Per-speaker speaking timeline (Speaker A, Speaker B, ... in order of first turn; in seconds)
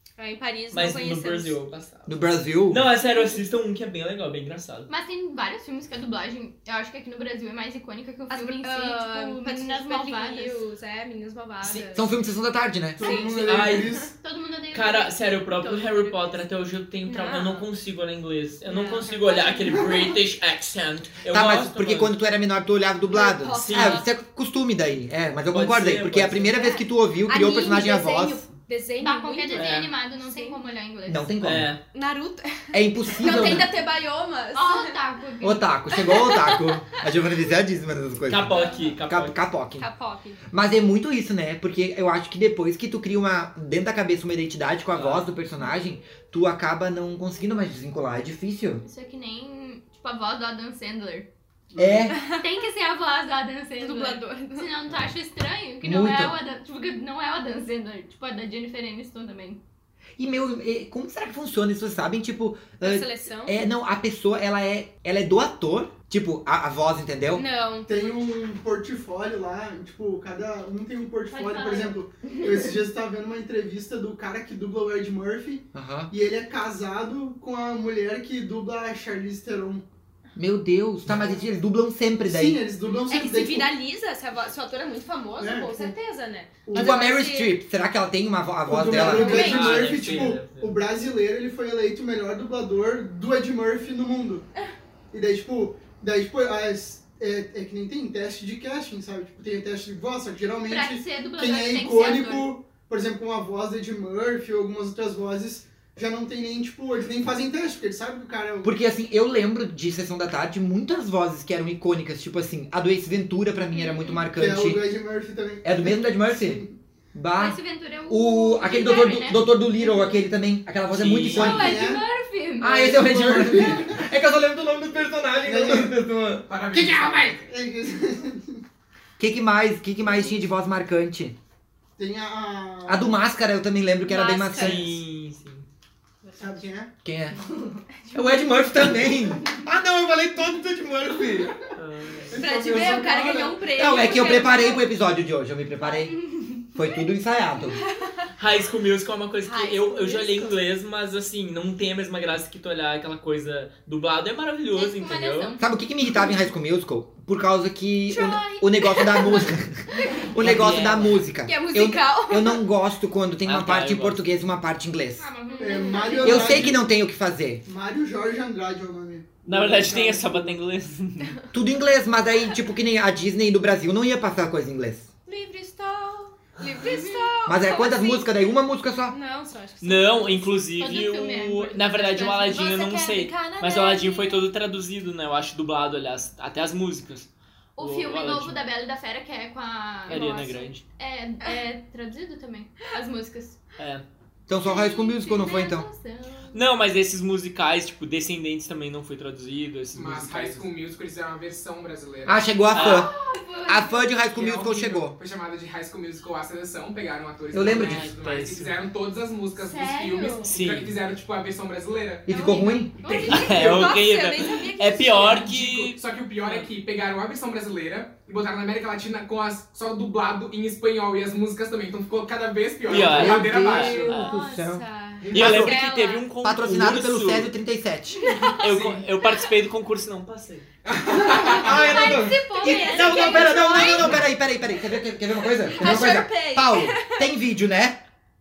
Speaker A: 0.2-1.6, 8.3-12.1, 13.0-14.1, 15.6-16.1, 17.0-17.6, 18.6-19.6, 23.1-24.1, 26.5-30.6, 31.9-35.0, 35.9-36.7, 38.5-38.9, 39.8-40.4, 52.1-52.5, 53.8-54.7, 62.8-63.6, 67.3-67.9, 83.1-87.5, 89.1-90.2, 134.1-134.9, 142.3-144.8, 147.9-148.3, 149.4-150.6, 158.1-159.5, 161.4-162.6, 165.5-166.6, 175.2-178.4, 179.1-180.5, 182.3-184.4, 209.6-210.5, 212.3-215.5, 224.1-226.3, 228.2-228.6, 232.4-234.2, 235.4-237.3
Speaker B: 0.7-2.1, 2.7-4.9, 13.3-13.9, 14.7-22.1, 23.4-24.0, 25.5-26.6, 29.5-29.9, 31.4-31.8, 38.3-39.4, 44.9-45.2, 88.9-90.7, 120.9-121.7, 134.5-135.7, 141.8-142.4, 148.4-155.5, 160.4-161.2, 163.4-164.2, 169.4-171.4, 179.8-188.6, 190.1-190.8, 193.8-194.0, 196.5-200.7, 202.7-203.1, 207.6-208.8, 210.5-210.9, 213.3-216.7, 222.9-224.3, 225.3-227.5, 228.6-230.7
Speaker C: 2.1-2.9, 11.7-13.0, 21.3-28.4, 31.1-31.7, 32.7-33.7, 35.4-39.9, 40.5-48.8, 51.8-52.2, 55.8-56.4, 60.2-67.4, 75.7-76.1, 80.3-82.6, 86.7-90.2, 108.6-114.8, 115.6-116.6, 117.1-121.9, 122.6-127.3, 129.2-131.3, 132.8-134.9, 137.0-137.4, 138.1-141.6, 143.7-147.8, 155.6-165.3, 166.2-167.6, 171.5-175.1, 177.4-179.2, 194.5-195.9, 202.2-203.1, 203.7-205.2, 207.5-208.0, 212.3-213.0, 222.9-225.7, 226.4-228.4, 231.1-238.0
Speaker D: 4.9-10.6, 14.1-15.2, 29.0-31.3, 33.3-33.5, 34.5-35.7, 48.8-51.3, 52.3-59.6, 71.3-72.7, 100.7-102.5, 113.7-114.2, 117.3-120.0, 121.3-123.0, 145.8-146.7, 154.7-155.7, 165.2-166.7, 176.8-177.3, 180.8-182.7, 187.8-193.6, 194.6-196.6, 202.8-204.1, 213.0-213.5, 224.2-224.6, 231.2-234.1
Speaker E: 13.0-14.1, 51.7-52.1, 67.9-79.8, 82.2-83.7, 85.4-85.9, 86.7-87.1, 88.7-94.5, 95.1-108.7, 114.3-116.7, 121.4-122.0, 122.9-124.0, 125.4-125.9, 126.8-128.6, 132.0-133.2, 136.3-136.9, 142.3-143.7, 165.6-166.9, 167.6-170.6
Speaker F: 126.5-127.5, 142.3-143.5, 199.9-202.5, 204.3-212.4, 213.0-213.9, 215.1-224.2, 225.2-225.7, 228.6-229.1, 230.8-232.2